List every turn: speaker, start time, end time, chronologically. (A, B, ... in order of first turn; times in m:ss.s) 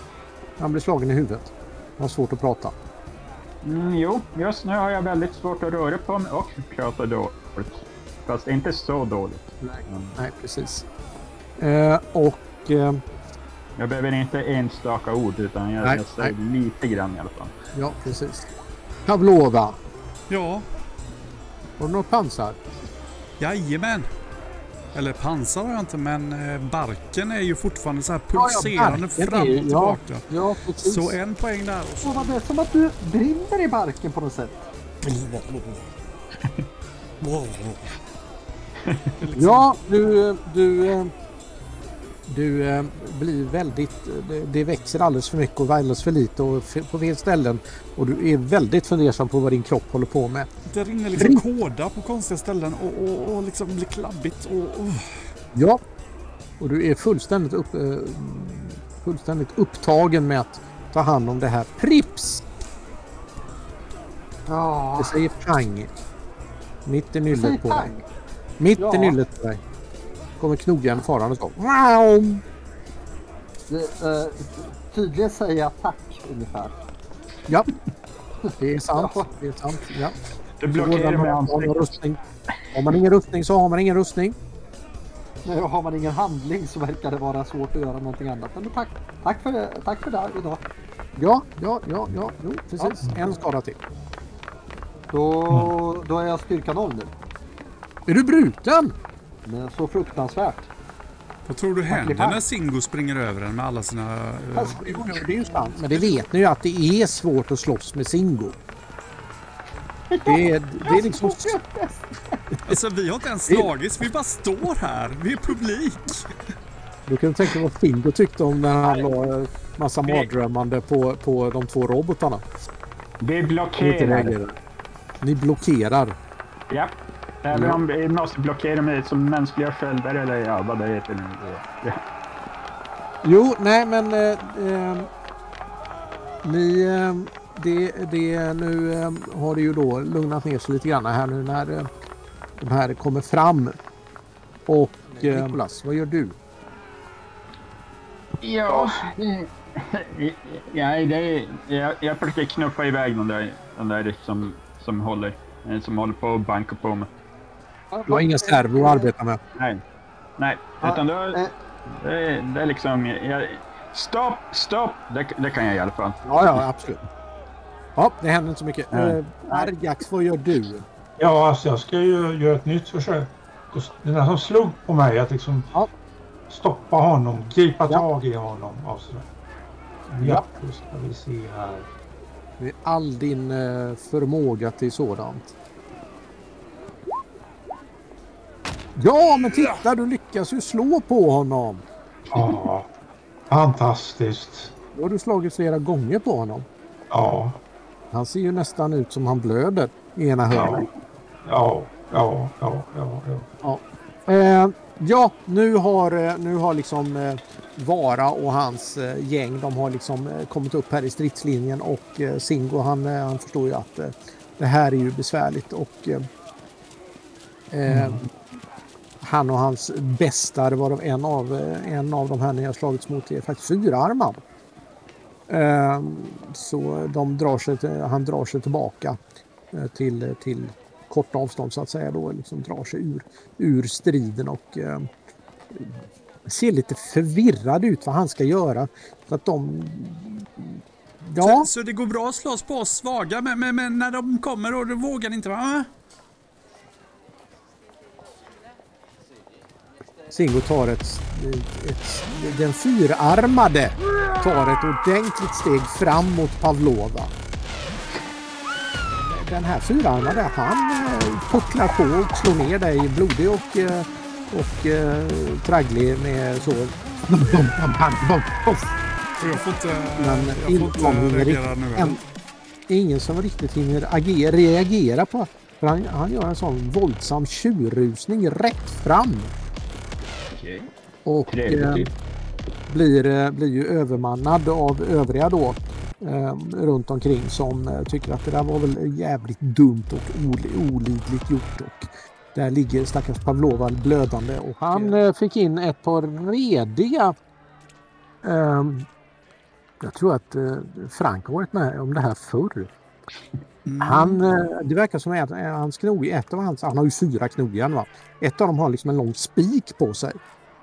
0:00.6-0:02.7 A
0:03.6-0:10.2 B
0:09.6-0:10.9 A
0:11.6-0:13.0 A
0:13.8-0:17.5 B
0:15.8-0:16.3 A
0:17.7-0:18.5 A
0:19.1-0:19.8 A
0:20.3-0:20.6 C
0:21.8-0:22.6 A
0:23.4-0:24.1 C
0:24.9-0:30.2 C
0:28.3-0:31.2 A
0:30.8-0:32.4 C
0:32.0-0:34.7 D
0:35.0-0:35.8 A
0:37.2-0:37.8 A
0:39.2-0:39.8 C
0:39.4-0:41.1 A
0:42.3-0:50.5 A
0:50.7-0:55.2 C
0:51.2-0:51.4 A
0:55.5-0:55.8 A
0:56.6-1:02.4 A
1:04.5-1:05.2 D
1:05.0-1:05.9 A
1:06.9-1:07.9 A
1:07.3-1:08.0 D
1:08.6-1:09.6 A
1:08.8-1:09.2 D
1:10.4-1:12.4 A
1:13.7-1:16.8 D
1:18.4-1:19.3 D
1:18.6-1:20.2 A
1:20.6-1:21.9 B
1:20.7-1:22.2 A
1:22.7-1:24.4 A
1:25.4-1:30.6 D
1:31.2-1:33.8 A
1:35.1-1:37.1 D
1:38.1-1:38.9 A
1:39.4-1:40.7 D
1:41.5-1:45.1 C
1:41.9-1:42.4 D
1:44.6-1:48.6 A
1:44.6-1:45.8 D
1:50.1-1:52.4 D
1:50.3-1:51.6 A
1:52.7-1:56.3 C
1:57.1-2:02.4 A
2:03.2-2:04.4 B
2:03.8-2:04.6 A
2:05.2-2:06.2 A
2:06.7-2:12.0 B
2:07.5-2:07.8 A
2:13.2-2:15.1 A
2:16.4-2:21.9 A
2:22.6-2:23.8 A
2:24.7-2:26.4 A
2:25.2-2:25.5 D
2:28.4-2:37.1 B
2:37.9-2:39.1 D
2:38.1-2:39.4 A
2:39.6-2:39.8 B
2:40.4-2:46.2 B
2:40.8-2:41.5 D
2:46.2-2:47.1 A
2:48.0-2:50.9 A
2:48.9-2:49.7 B
2:51.2-2:55.7 E
2:56.5-2:59.3 E
3:00.1-3:01.9 E
3:00.2-3:00.4 A
3:02.6-3:05.5 A
3:09.0-3:11.8 A
3:12.3-3:12.9 E
3:13.5-3:14.7 E
3:14.9-3:16.7 A
3:17.1-3:17.6 E
3:18.1-3:20.9 A
3:20.5-3:20.9 E
3:21.4-3:23.5 E
3:23.6-3:36.3 A
3:37.7-3:38.3 A
3:37.9-3:38.2 E
3:39.2-3:44.4 A
3:45.5-3:49.2 A
3:49.7-3:55.1 A
3:55.7-4:01.7 A
4:01.4-4:05.9 C
4:10.3-4:17.3 A
4:19.2-4:28.9 A
4:29.4-4:32.2 C
4:30.2-4:32.2 A
4:32.9-4:39.5 A
4:40.5-4:40.9 B
4:41.3-4:42.1 A
4:41.5-4:42.1 B
4:42.9-4:57.3 A
4:58.4-4:59.1 A
5:00.0-5:02.9 A
5:03.9-5:04.5 C
5:04.0-5:10.4 A